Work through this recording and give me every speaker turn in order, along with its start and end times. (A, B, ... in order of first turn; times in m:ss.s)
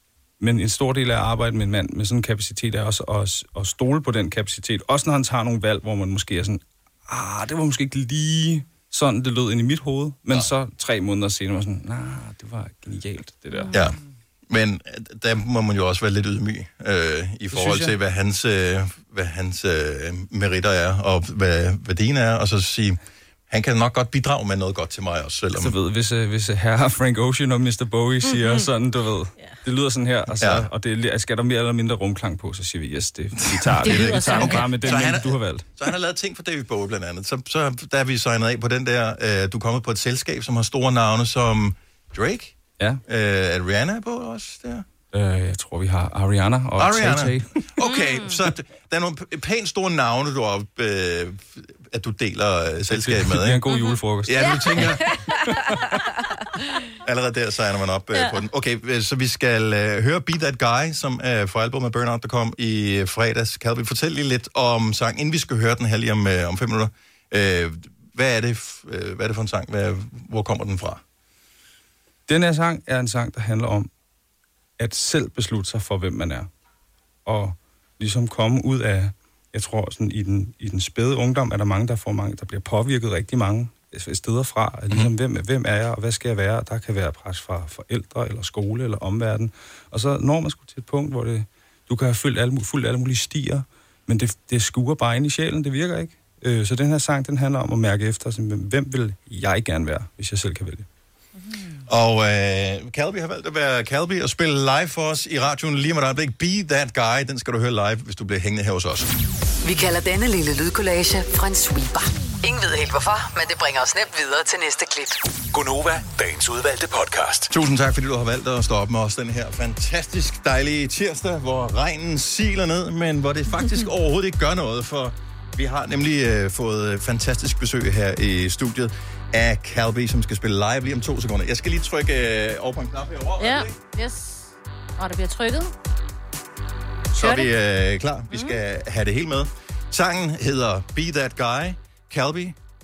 0:00.4-0:13.7 A
0:13.5-0:14.0 B
0:14.5-0:25.7 C
0:17.5-0:18.0 A
0:25.5-0:35.6 A
0:28.2-0:28.6 B
0:30.4-0:30.6 C
0:33.8-0:35.2 B
0:33.9-0:44.8 C
0:45.1-0:47.5 A
0:46.8-0:53.6 C
0:47.8-0:48.4 B
0:52.9-0:55.0 A
0:53.7-0:54.9 B
0:54.2-0:55.0 C
0:57.0-1:11.0 C
1:12.3-1:13.9 A
1:14.8-1:16.5 A
1:17.2-1:40.8 A
1:41.9-1:49.1 C
1:49.6-1:55.2 D
1:55.5-1:57.5 E
1:57.5-2:13.8 C
2:13.4-2:15.7 B
2:17.1-2:22.6 C
2:17.2-2:17.5 B